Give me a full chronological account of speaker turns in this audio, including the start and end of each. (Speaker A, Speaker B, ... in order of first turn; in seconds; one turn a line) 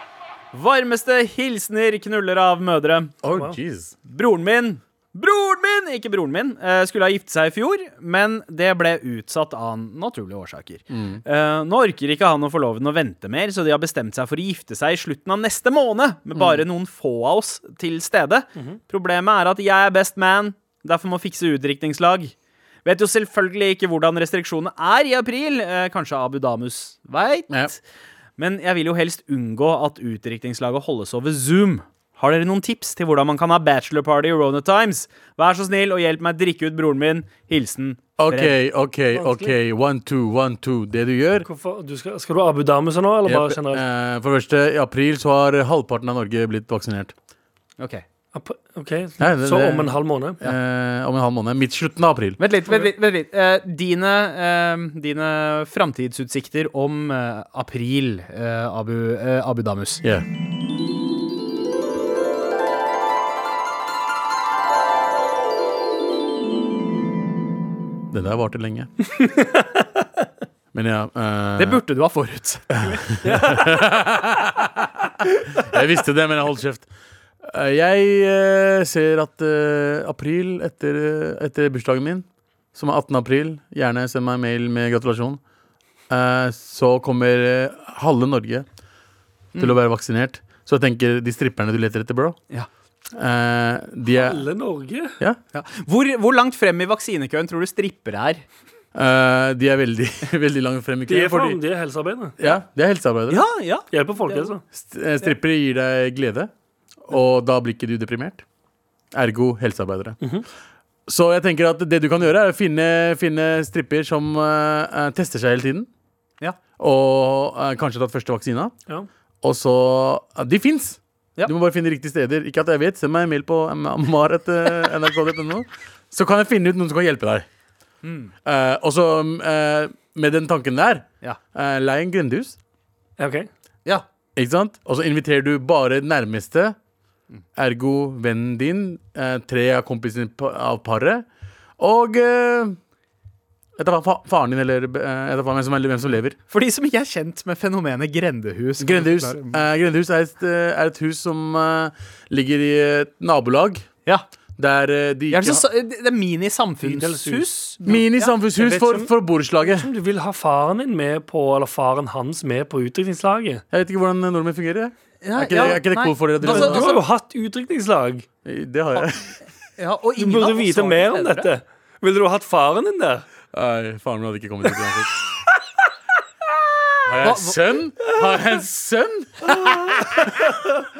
Speaker A: 0.5-3.1
Speaker B: 3.2-3.9
Speaker A: 4.0-22.3
Speaker B: 10.9-11.2
Speaker A: 22.8-27.8
Speaker A: 28.4-38.5
Speaker B: 38.2-41.5
Speaker C: 39.1-39.5
Speaker C: 41.4-43.8
Speaker B: 43.2-47.1
Speaker A: 47.8-48.0
Speaker C: 48.3-50.4
Speaker B: 49.2-52.4
Speaker A: 52.4-60.0
Speaker B: 68.1-68.9
Speaker C: 69.2-69.7
Speaker B: 70.7-71.8
Speaker A: 71.6-73.1
Speaker B: 72.7-74.9
Speaker C: 73.2-73.7
Speaker B: 75.5-76.9
Speaker B: 77.4-85.4
Speaker B: 86.1-88.6
Speaker B: 89.6-92.4
Speaker B: 93.1-94.4
Speaker C: 94.1-95.1
Speaker A: 95.5-98.4
Speaker B: 98.9-101.6
Speaker C: 101.1-102.3
Speaker B: 102.4-103.4
Speaker A: 103.3-104.5
Speaker C: 103.9-104.6
Speaker B: 104.7-106.5
Speaker B: 107.1-108.4
Speaker B: 109.1-110.2
Speaker B: 111.1-115.9
Speaker B: 116.8-118.7
Speaker B: 119.4-127.5
Speaker A: 128.0-128.3
Speaker B: 128.4-132.6
Speaker C: 133.2-133.5
Speaker B: 134.3-136.7
Speaker B: 137.6-141.2
Speaker B: 141.8-142.8
Speaker B: 143.8-146.4
Speaker A: 146.5-149.6
Speaker B: 148.8-153.8
Speaker B: 154.6-155.6
Speaker A: 155.3-158.3
Speaker C: 156.8-157.5
Speaker B: 157.8-159.9
Speaker C: 158.6-159.1
Speaker C: 159.6-163.6
Speaker B: 163.7-167.0
Speaker A: 165.2-167.0
Speaker C: 166.4-168.2
Speaker B: 168.4-169.3
Speaker A: 169.8-171.5
Speaker C: 170.2-173.2
Speaker B: 173.5-175.2
Speaker B: 177.0-180.5
Speaker A: 177.2-177.6